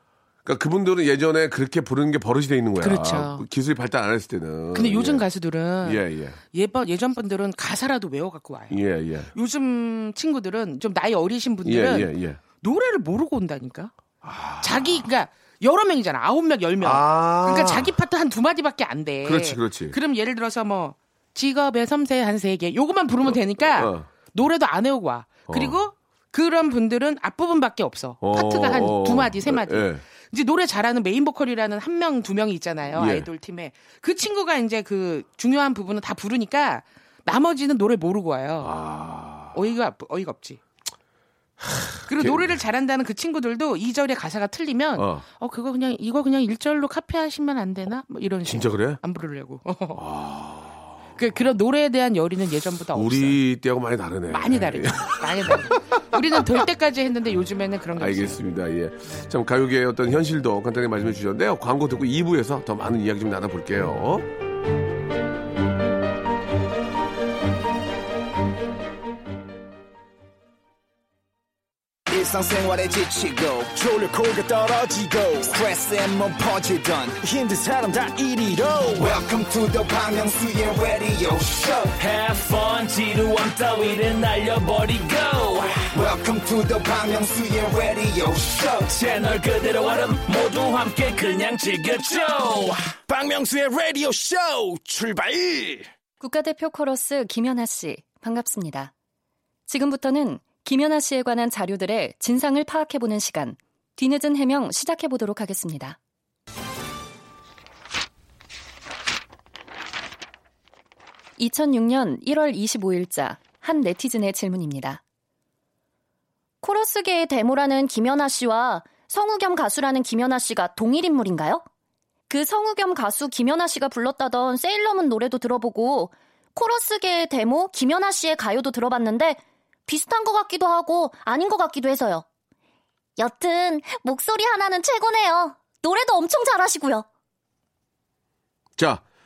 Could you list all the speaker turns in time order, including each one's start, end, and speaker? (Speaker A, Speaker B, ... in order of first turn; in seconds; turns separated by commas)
Speaker A: 0.5-5.3, Speaker B: 2.8-3.4, Speaker B: 4.7-8.8, Speaker A: 5.8-6.4, Speaker A: 8.7-9.3, Speaker B: 9.3-13.9, Speaker A: 11.7-12.4, Speaker A: 14.2-15.1, Speaker B: 14.6-38.8, Speaker A: 16.8-18.0, Speaker A: 19.2-20.0, Speaker A: 23.6-24.1, Speaker A: 25.5-25.8, Speaker A: 28.2-30.0, Speaker A: 33.0-33.3, Speaker A: 38.6-39.6, Speaker B: 39.5-40.6, Speaker A: 41.6-42.5, Speaker B: 42.1-50.0, Speaker A: 45.0-45.2, Speaker A: 48.5-49.0, Speaker A: 50.0-50.9, Speaker B: 51.2-53.4, Speaker A: 52.9-55.8, Speaker B: 54.3-58.4, Speaker A: 58.0-64.3, Speaker C: 72.1-77.2, Speaker D: 74.2-74.8, Speaker D: 77.2-79.1, Speaker C: 78.9-82.0, Speaker E: 82.0-85.8, Speaker C: 85.9-89.0, Speaker E: 88.9-92.8, Speaker D: 93.1-95.9, Speaker F: 96.2-98.9, Speaker F: 99.7-106.0, Speaker F: 111.4-115.0, Speaker F: 116.6-121.6, Speaker F: 122.3-132.2, Speaker F: 133.2-137.1, Speaker A: 138.8-139.0